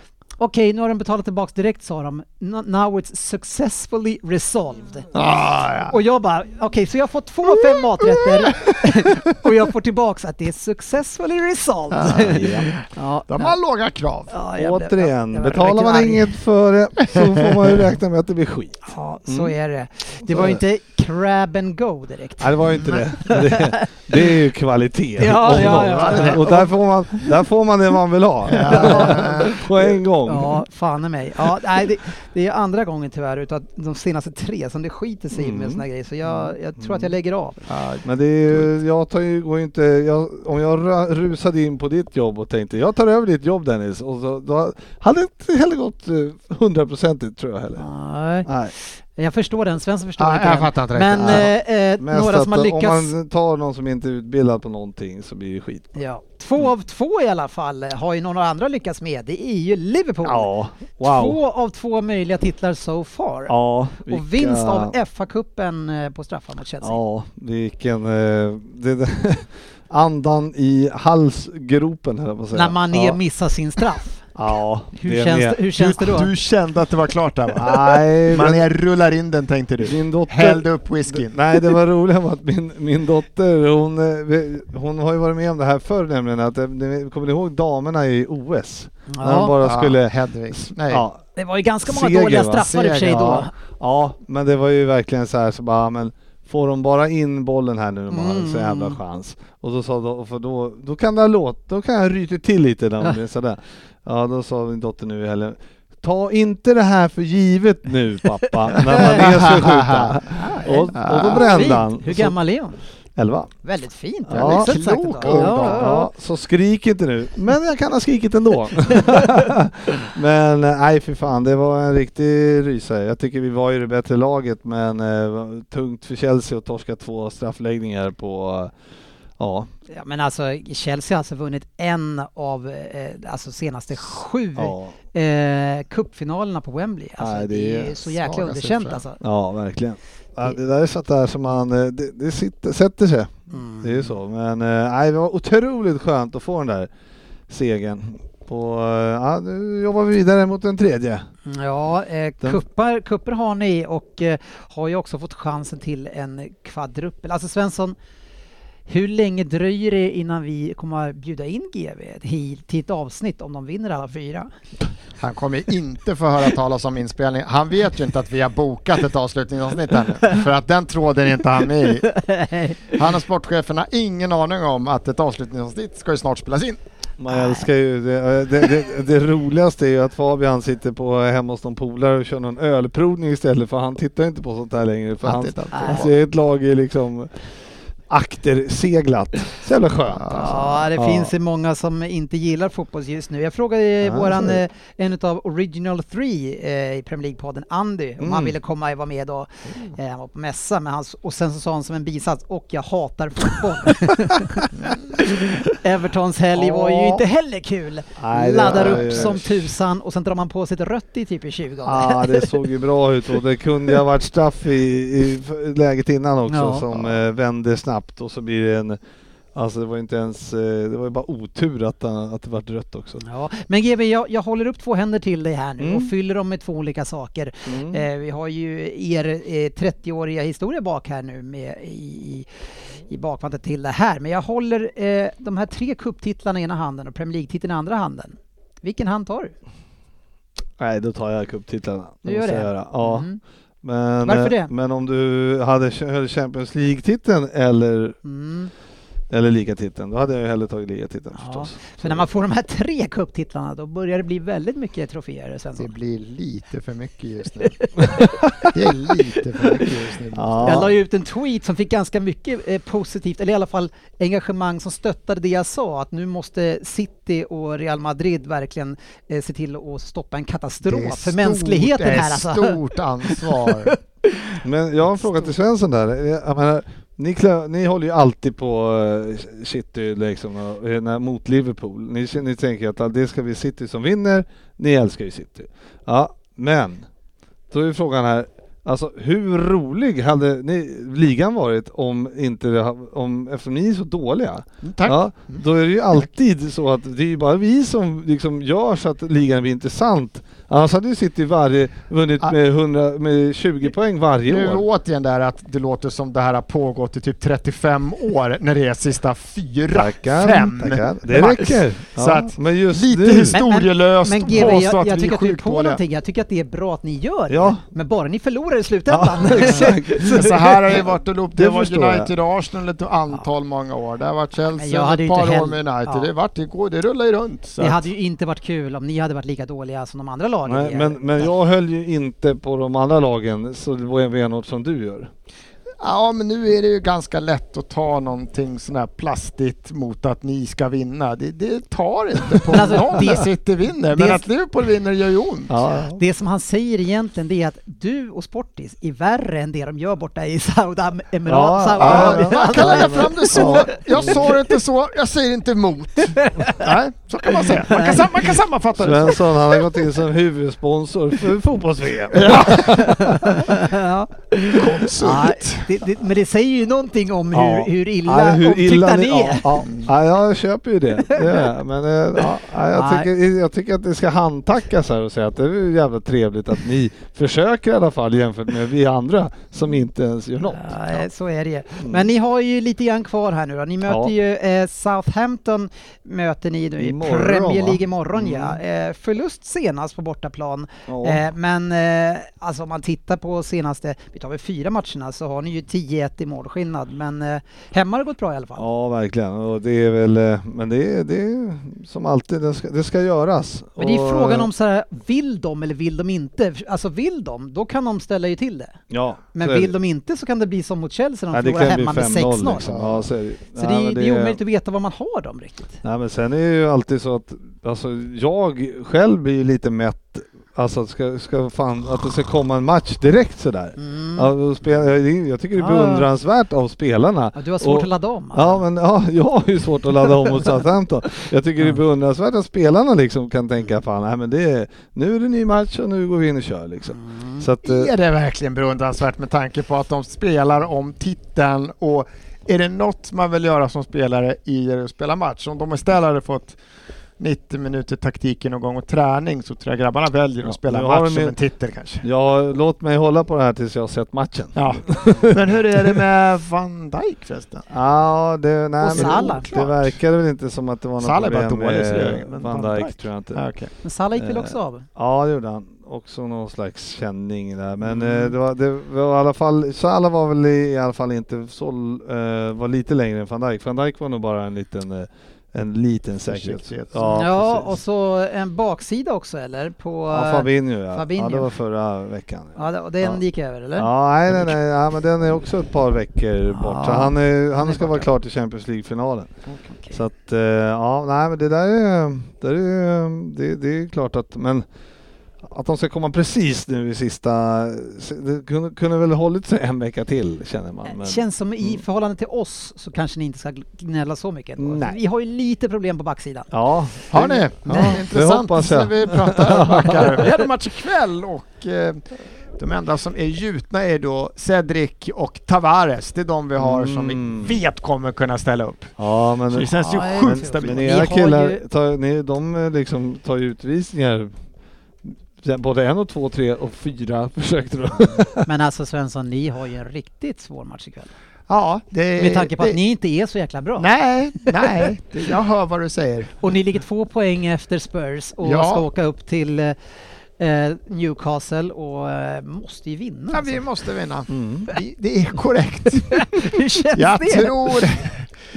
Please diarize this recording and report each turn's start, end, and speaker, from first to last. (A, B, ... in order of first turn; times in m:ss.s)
0:00.4-0:05.3 A
0:05.1-0:06.0 B
0:05.8-0:13.6 A
0:08.1-0:09.1 B
0:11.9-0:14.3 B
0:12.1-0:12.7 C
0:14.3-0:16.3 A
0:14.6-0:19.5 C
0:18.9-0:24.2 A
0:20.2-0:20.6 C
0:22.4-0:30.6 C
0:25.2-0:26.7 A
0:25.5-0:26.6 B
0:28.5-0:29.6 B
0:28.6-0:29.5 A
0:30.3-0:37.7 A
0:35.3-0:37.1 C
0:37.7-0:38.7 B
0:38.0-0:47.8 C
0:47.8-0:53.1 A
0:48.5-0:48.7 C
0:50.2-0:51.5 B
0:51.2-0:56.0 C
0:56.0-1:07.0 A
1:00.2-1:01.4 C
1:03.5-1:04.9 C
1:06.8-1:13.2 C
1:12.5-1:14.3 A
1:14.4-1:15.6 C
1:15.0-1:16.3 A
1:15.8-1:21.7 B
1:17.6-1:18.6 C
1:19.8-1:31.2 C
1:29.1-1:29.6 A
1:29.6-1:31.1 B
1:31.4-1:33.5 A
1:31.9-1:52.4 C
1:32.6-1:33.4 B
1:38.1-1:39.0 A
1:48.7-1:49.2 A
1:49.0-1:50.2 B
1:50.3-1:52.8 A
1:50.9-1:51.8 B
1:53.2-1:53.5 C
1:53.6-1:56.1 A
1:54.3-2:08.8 C
1:54.3-1:55.9 B
2:09.4-2:09.7 C
2:09.9-2:19.2 A
2:14.6-2:15.0 C
2:17.2-2:17.9 C
2:18.1-2:19.0 B
2:19.2-2:26.9 C
2:23.5-2:24.2 A
2:27.5-2:31.3 C
2:31.5-2:38.0 A
2:38.9-2:44.5 A
2:45.2-2:52.2 B
2:52.1-2:53.0 A
2:52.9-2:56.8 B
2:57.2-3:07.4 C
2:57.3-2:57.7 A
3:05.2-3:06.1 B
3:05.7-3:06.0 A
3:08.1-3:11.3 C
3:10.2-3:10.6 B
3:10.3-3:32.5 A
3:14.0-3:14.6 C
3:18.2-3:18.5 C
3:24.8-3:25.2 B
3:26.5-3:27.2 C
3:28.2-3:29.6 C
3:28.6-3:29.4 B
3:31.8-3:39.0 C
3:36.5-3:37.1 A
3:39.5-3:43.2 C
3:43.2-3:59.6 A
3:45.8-3:46.1 C
3:47.7-3:48.0 C
4:00.8-4:03.3 C
4:02.2-4:03.4 A
4:03.8-4:08.2 C
4:04.2-4:04.7 A
4:08.2-4:08.7 A
4:09.3-4:12.3 C
4:11.4-4:15.9 A
4:15.8-4:17.9 B
4:17.8-4:18.8 A
4:18.6-4:21.0 B
4:20.4-4:21.0 C
4:20.6-4:34.6 A
4:30.8-4:34.0 B
4:34.6-4:47.1 C
4:47.7-5:04.8 C
4:54.8-4:55.6 B
5:04.5-5:16.0 B
5:09.9-5:13.6 C
5:13.5-5:21.0 A
5:17.5-5:17.8 C
5:19.1-5:20.4 C
5:20.2-5:28.0 B
5:21.6-5:22.3 C
5:24.8-5:26.3 A
5:27.8-5:31.5 A
5:30.7-5:35.3 C
5:36.0-5:45.8 B
5:42.7-5:43.5 A
5:44.1-5:44.4 A
5:45.7-5:46.2 C
5:46.2-5:54.8 A
5:51.5-5:54.4 C
5:52.0-5:59.5 B
5:56.2-5:56.9 A
5:57.4-5:58.5 A
5:59.0-6:03.6 C
6:02.3-6:03.1 B
6:02.7-6:09.8 A
6:04.6-6:05.9 B
6:07.5-6:21.2 C
6:11.3-6:11.6 A
6:12.4-6:13.3 A
6:20.6-6:38.9 A
6:22.0-6:22.3 C
6:24.0-6:24.3 C
6:27.0-6:28.8 C
6:31.1-6:31.4 C
6:38.8-6:44.7 C
6:44.0-6:49.0 A
6:49.1-6:49.9 C
6:49.5-6:53.2 A
6:51.5-6:54.6 C
6:52.9-6:53.1 B
6:53.8-6:56.0 A
6:56.0-7:18.1 C
7:04.0-7:04.5 A
7:05.8-7:06.3 A
7:07.5-7:08.8 A
7:17.1-7:17.6 A
7:17.8-7:26.8 B
7:27.4-7:32.2 B
7:30.6-7:31.6 C
7:32.2-7:36.2 C
7:34.8-7:37.9 B
7:37.9-7:43.6 C
7:39.0-7:39.7 A
7:39.1-7:40.2 B
7:41.2-7:43.9 B
7:44.0-7:45.1 A
7:44.4-7:57.9 C
7:48.1-7:48.5 A
7:56.5-7:57.5 B
7:57.3-8:01.7 A
8:00.3-8:03.4 C
8:02.8-8:04.8 A
8:04.0-8:09.5 C
8:06.7-8:08.3 A
8:09.7-8:10.2 A
8:10.1-8:14.9 C
8:15.6-8:22.0 C
8:21.0-8:26.7 A
8:24.8-8:25.2 C
8:26.7-8:30.4 C
8:27.3-8:41.2 B
8:27.9-8:28.2 A
8:36.8-8:37.8 C
8:39.2-8:44.5 C
8:40.1-8:41.8 A
8:45.2-8:48.7 C
8:48.7-8:51.3 A
8:51.7-8:53.0 B
8:52.4-8:54.1 A
8:54.0-8:56.6 B
8:54.6-8:55.0 A
8:56.6-9:00.0 A
8:58.6-8:59.0 B
9:00.6-9:03.8 A
9:03.5-9:08.6 B
9:04.5-9:04.9 C
9:06.3-9:08.1 A